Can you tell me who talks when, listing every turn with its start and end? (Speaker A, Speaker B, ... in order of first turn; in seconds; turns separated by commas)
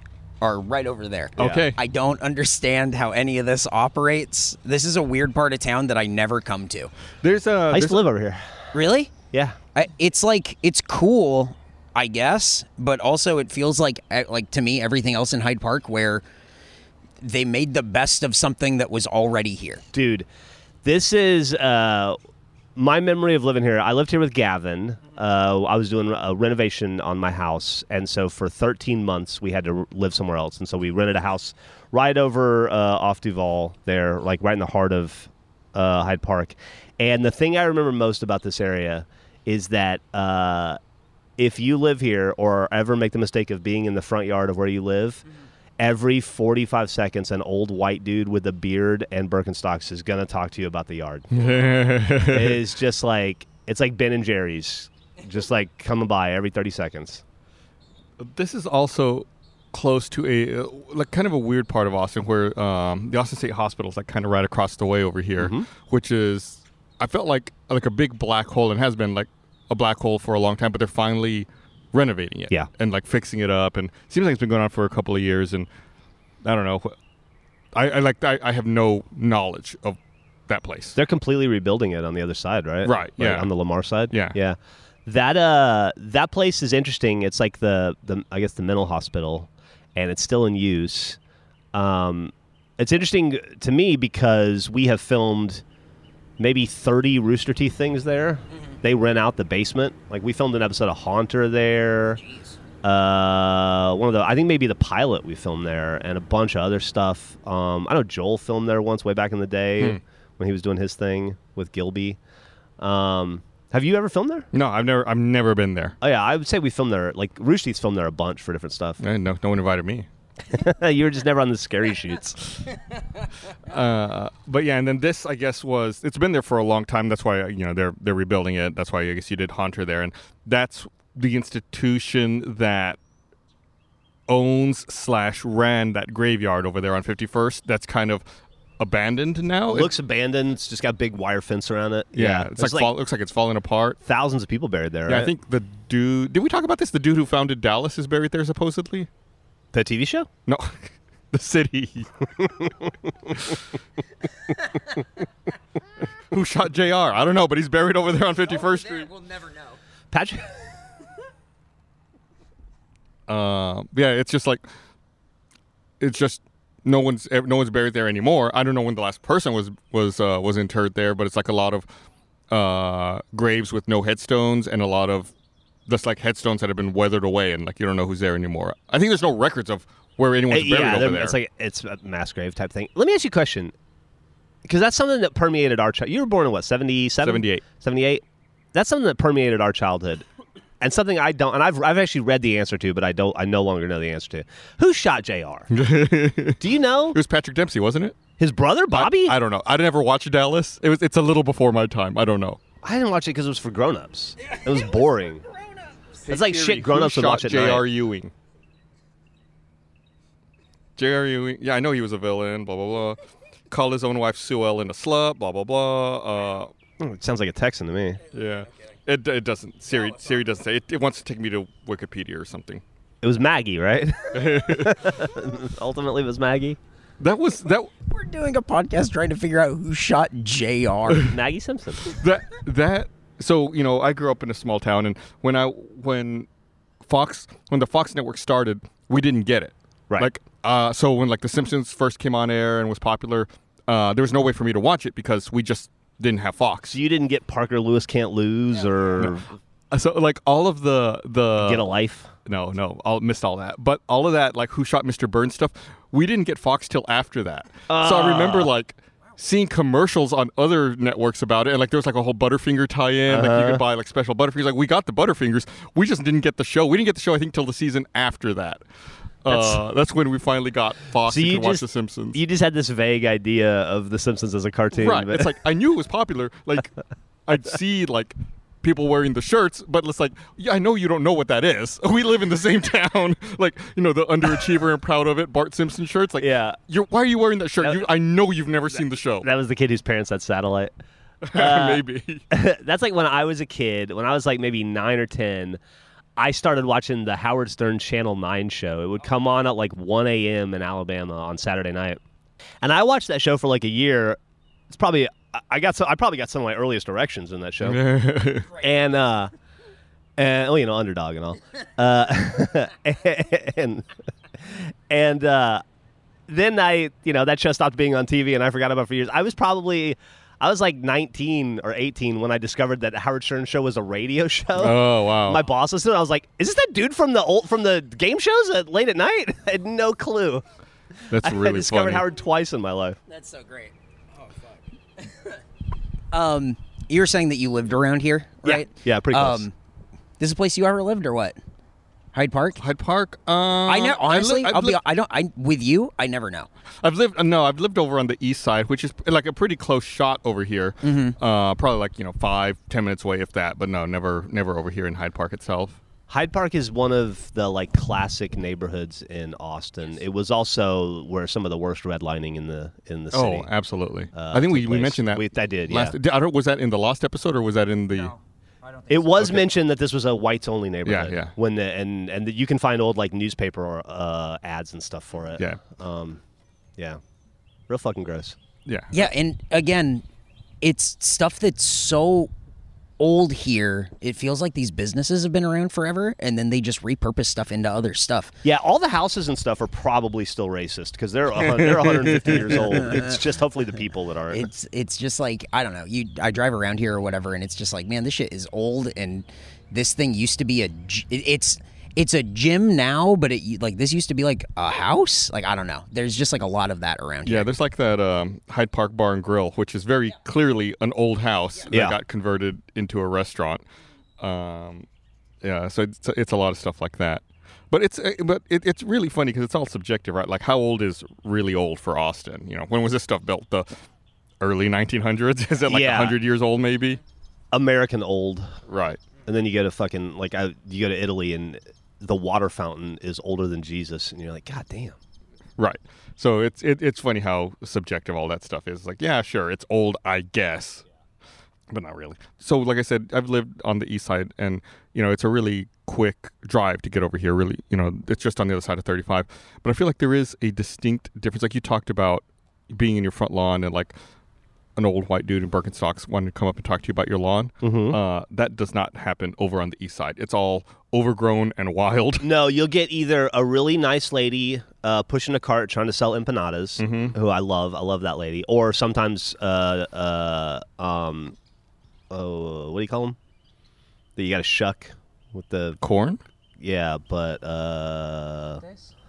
Speaker A: 0.4-6.9, Speaker B: 1.4-1.8, Speaker C: 1.4-1.6, Speaker B: 7.2-8.0, Speaker C: 7.7-8.5, Speaker A: 8.7-9.1, Speaker C: 9.3-9.6, Speaker A: 9.7-16.2, Speaker A: 17.2-19.8, Speaker C: 19.9-20.3, Speaker C: 20.8-22.2, Speaker C: 22.8-40.8, Speaker C: 41.4-45.2, Speaker C: 45.8-51.4, Speaker B: 51.3-52.6, Speaker C: 52.3-57.2, Speaker B: 58.2-75.7, Speaker C: 65.4-65.7, Speaker B: 76.4-77.0, Speaker B: 77.7-81.0, Speaker C: 81.0-91.2, Speaker B: 82.8-83.5, Speaker B: 84.1-84.4, Speaker C: 91.7-95.6, Speaker C: 96.4-102.2, Speaker C: 102.8-112.2, Speaker C: 112.8-114.5, Speaker B: 114.5-116.0, Speaker C: 116.0-119.0, Speaker B: 119.0-120.1, Speaker C: 120.5-122.7, Speaker B: 123.6-133.0, Speaker B: 134.3-138.2, Speaker B: 138.8-139.9, Speaker C: 139.7-142.9, Speaker B: 142.1-144.0, Speaker C: 144.1-145.3, Speaker B: 145.1-149.1, Speaker C: 149.7-150.3, Speaker B: 150.5-152.7, Speaker B: 156.3-159.5, Speaker C: 160.1-160.6, Speaker B: 163.3-164.6, Speaker B: 166.0-171.9, Speaker B: 172.5-175.3, Speaker B: 175.9-181.4, Speaker C: 180.5-183.7, Speaker C: 184.7-188.2, Speaker B: 187.2-187.7, Speaker C: 188.7-190.2, Speaker C: 190.8-195.7, Speaker B: 195.7-198.2, Speaker C: 196.6-197.2, Speaker C: 198.4-199.4, Speaker B: 198.9-202.6, Speaker C: 202.8-205.5, Speaker B: 206.3-208.3, Speaker C: 206.3-207.8, Speaker B: 211.0-213.2, Speaker B: 213.7-216.7, Speaker C: 217.0-218.2, Speaker B: 218.3-222.8, Speaker C: 223.2-226.8, Speaker B: 224.3-225.2, Speaker B: 227.2-227.9, Speaker A: 228.1-231.3, Speaker C: 231.2-232.2, Speaker B: 232.0-236.5, Speaker B: 237.1-247.0, Speaker C: 246.9-249.5, Speaker B: 249.9-251.8, Speaker C: 251.6-252.3, Speaker B: 252.5-268.8, Speaker C: 257.9-258.7, Speaker C: 263.3-263.9, Speaker B: 269.4-272.4, Speaker C: 269.5-269.8, Speaker C: 271.3-275.5, Speaker B: 274.9-276.9, Speaker B: 277.5-289.5, Speaker C: 286.4-286.8, Speaker C: 289.4-290.9, Speaker B: 291.4-292.4, Speaker C: 291.5-295.8, Speaker C: 296.4-302.2, Speaker C: 302.8-304.4, Speaker C: 304.9-308.0, Speaker B: 307.8-308.8, Speaker C: 308.8-309.5, Speaker C: 310.4-314.1, Speaker C: 314.6-315.8, Speaker C: 316.5-330.6, Speaker B: 324.8-325.6, Speaker B: 331.3-332.3, Speaker C: 331.3-333.2, Speaker A: 333.3-335.5, Speaker A: 336.3-339.7, Speaker C: 338.6-339.7, Speaker A: 340.4-341.6, Speaker A: 342.3-342.8, Speaker B: 342.8-345.0, Speaker A: 343.9-346.7, Speaker B: 347.0-356.0, Speaker A: 351.0-351.4, Speaker C: 356.3-363.7, Speaker B: 363.3-368.4, Speaker C: 364.3-366.2, Speaker C: 369.1-376.4, Speaker B: 369.3-369.7, Speaker B: 371.1-371.5, Speaker C: 377.9-378.6, Speaker B: 378.9-379.2, Speaker A: 379.1-380.2, Speaker A: 380.8-382.5, Speaker A: 383.2-388.6, Speaker C: 388.6-394.7, Speaker B: 391.6-392.8, Speaker A: 394.5-407.7, Speaker B: 407.4-413.9, Speaker C: 411.9-412.2, Speaker B: 414.4-415.1, Speaker B: 415.6-423.9, Speaker B: 424.6-427.2, Speaker C: 425.9-426.4, Speaker C: 427.7-428.8, Speaker B: 428.9-429.2, Speaker C: 429.4-435.2, Speaker B: 435.8-441.0, Speaker B: 441.9-454.1, Speaker B: 455.0-462.5, Speaker C: 457.8-458.2, Speaker C: 462.4-471.6, Speaker B: 467.0-467.4, Speaker C: 472.3-473.4, Speaker C: 474.4-476.0, Speaker B: 476.0-476.4, Speaker C: 476.8-478.8